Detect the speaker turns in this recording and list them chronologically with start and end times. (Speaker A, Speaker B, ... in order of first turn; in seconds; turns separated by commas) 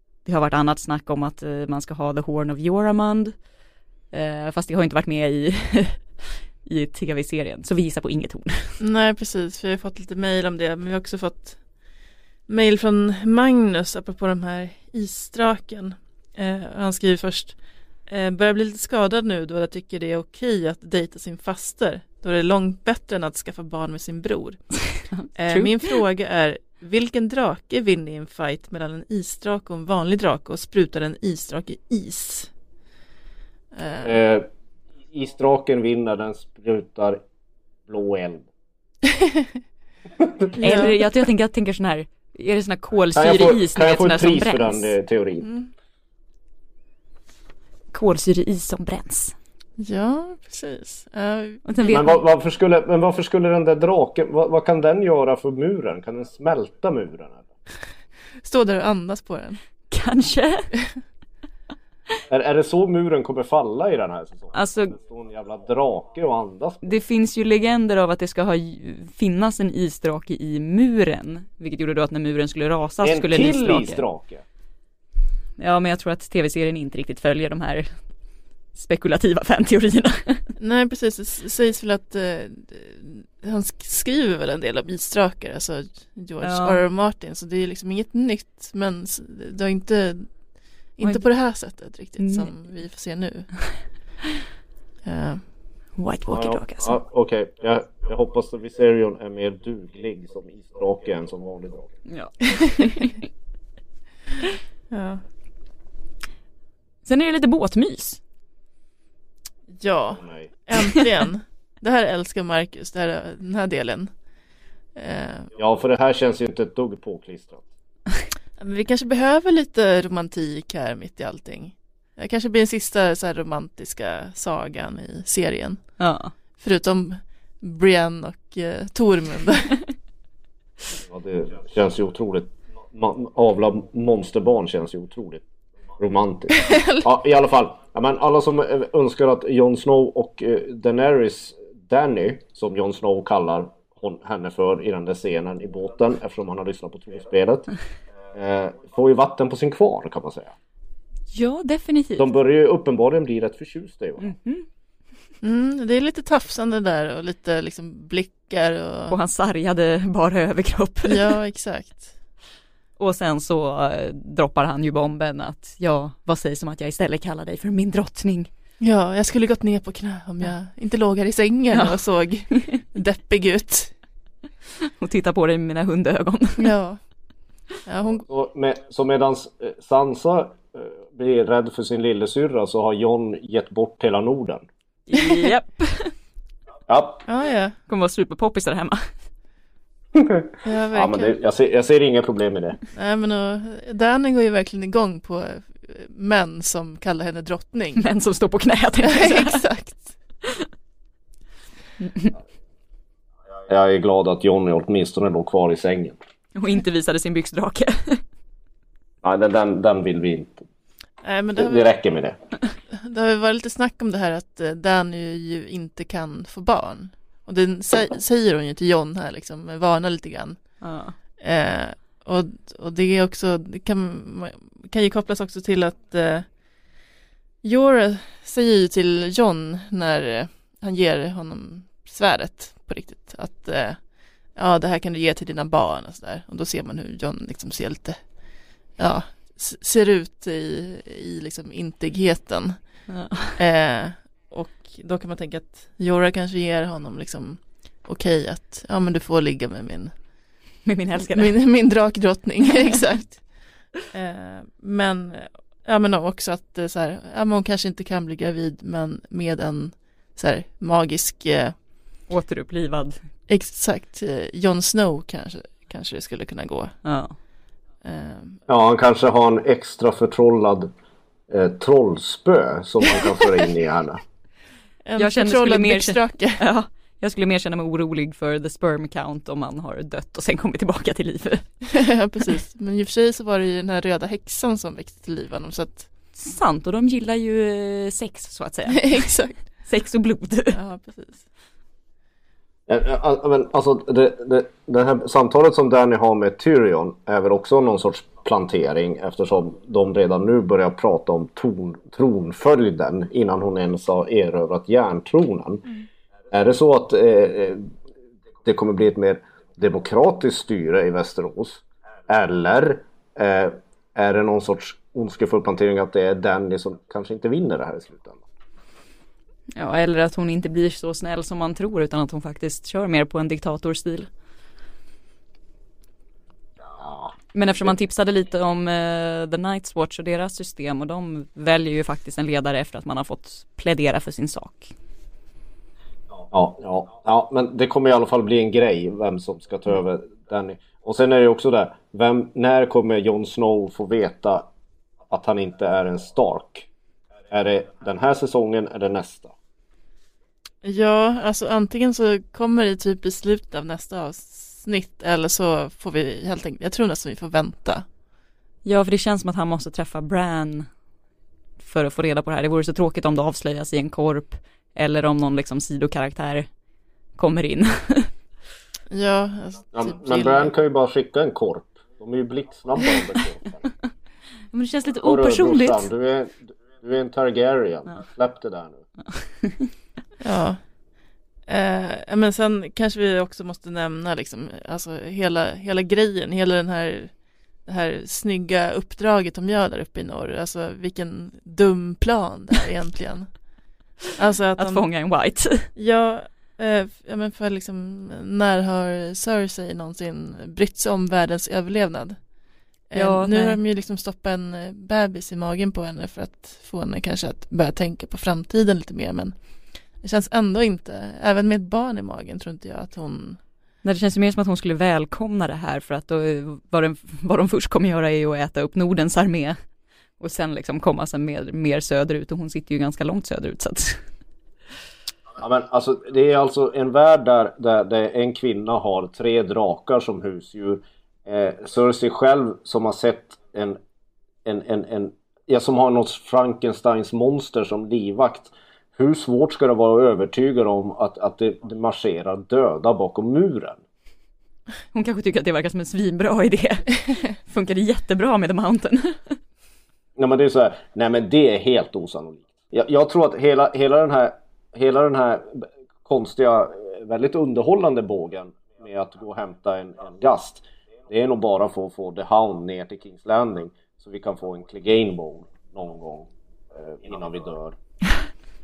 Speaker A: 0.2-3.4, Speaker A: 4.1-8.8, Speaker B: 8.8-11.6, Speaker B: 12.5-24.6, Speaker A: 25.1-25.8, Speaker B: 25.4-32.5, Speaker B: 33.7-34.1, Speaker C: 34.0-34.5, Speaker C: 35.1-37.2, Speaker C: 37.9-38.5, Speaker B: 39.2-39.4, Speaker C: 40.2-40.6, Speaker A: 40.6-44.9, Speaker B: 40.6-40.9, Speaker C: 43.1-45.5, Speaker B: 45.4-45.7, Speaker A: 47.9-49.4, Speaker B: 49.8-52.2, Speaker A: 51.6-52.1, Speaker C: 51.9-57.4, Speaker B: 58.4-59.6, Speaker A: 59.9-60.7, Speaker C: 62.3-66.9, Speaker A: 64.5-64.9, Speaker A: 66.8-74.0, Speaker C: 73.0-74.4, Speaker A: 75.6-77.9, Speaker A: 78.7-80.5, Speaker B: 80.6-90.3, Speaker A: 86.4-86.8, Speaker B: 91.0-93.5, Speaker A: 92.2-92.5, Speaker B: 95.0-95.4, Speaker A: 96.0-97.0, Speaker C: 96.3-101.9, Speaker A: 102.1-103.2, Speaker B: 104.9-105.2, Speaker A: 107.0-108.2, Speaker B: 109.8-114.1, Speaker C: 110.2-110.5, Speaker B: 115.0-115.5, Speaker C: 115.6-117.7, Speaker B: 118.6-125.8, Speaker A: 126.0-126.3, Speaker B: 126.6-129.8, Speaker C: 131.0-135.4, Speaker C: 136.0-147.7, Speaker B: 136.6-137.0, Speaker C: 148.3-150.5, Speaker A: 151.3-152.3, Speaker C: 152.2-154.3, Speaker A: 154.2-154.6, Speaker B: 155.4-159.1, Speaker A: 159.1-161.3, Speaker B: 161.1-162.1, Speaker A: 163.0-168.5, Speaker B: 168.8-173.9, Speaker A: 174.8-176.7, Speaker B: 176.6-177.0, Speaker B: 177.8-178.2, Speaker C: 178.3-184.6, Speaker A: 185.1-186.1, Speaker B: 185.2-185.5, Speaker C: 186.9-187.2, Speaker B: 187.3-187.8, Speaker A: 187.9-189.1, Speaker C: 190.1-192.8, Speaker B: 190.6-191.3, Speaker B: 192.9-198.0, Speaker A: 198.0-199.6, Speaker B: 199.0-200.1, Speaker A: 202.0-202.3, Speaker C: 203.7-206.2, Speaker A: 206.6-208.2, Speaker C: 209.2-210.6, Speaker B: 211.2-211.9, Speaker C: 211.6-212.4, Speaker B: 212.9-220.6, Speaker A: 220.8-221.1, Speaker B: 221.4-226.4, Speaker B: 227.6-234.0, Speaker B: 234.5-238.2, Speaker B: 239.0-242.8, Speaker A: 243.1-243.6, Speaker B: 243.6-250.1, Speaker A: 250.8-251.5, Speaker B: 251.2-253.4, Speaker B: 254.1-261.7, Speaker A: 262.3-263.2, Speaker B: 263.5-266.9, Speaker A: 267.0-267.4, Speaker B: 268.0-268.6, Speaker C: 268.7-270.9, Speaker C: 271.5-274.2, Speaker B: 275.0-276.6, Speaker A: 275.2-281.9, Speaker B: 281.9-286.1, Speaker A: 286.4-290.8, Speaker B: 288.9-289.6, Speaker B: 290.7-291.4, Speaker C: 292.9-305.8, Speaker C: 306.5-307.8, Speaker C: 308.6-318.4, Speaker A: 319.8-324.3, Speaker C: 327.0-327.9, Speaker A: 327.5-334.9, Speaker C: 336.5-344.7, Speaker C: 345.3-346.9, Speaker C: 347.5-349.5, Speaker B: 350.8-358.1, Speaker A: 358.8-360.9, Speaker A: 361.8-366.7, Speaker A: 367.4-368.3, Speaker B: 369.1-370.7, Speaker C: 369.9-373.9, Speaker A: 374.7-376.1, Speaker C: 375.2-379.0, Speaker A: 379.2-379.9, Speaker B: 380.4-380.8, Speaker B: 381.7-387.3, Speaker B: 387.9-393.5, Speaker B: 394.3-395.0, Speaker A: 394.8-395.9, Speaker B: 395.9-402.4, Speaker B: 403.1-409.6, Speaker A: 403.1-403.8, Speaker B: 410.2-413.6, Speaker A: 414.0-419.8, Speaker A: 420.4-424.2, Speaker C: 425.6-434.0, Speaker C: 434.6-444.0, Speaker A: 445.1-449.6, Speaker C: 450.4-468.0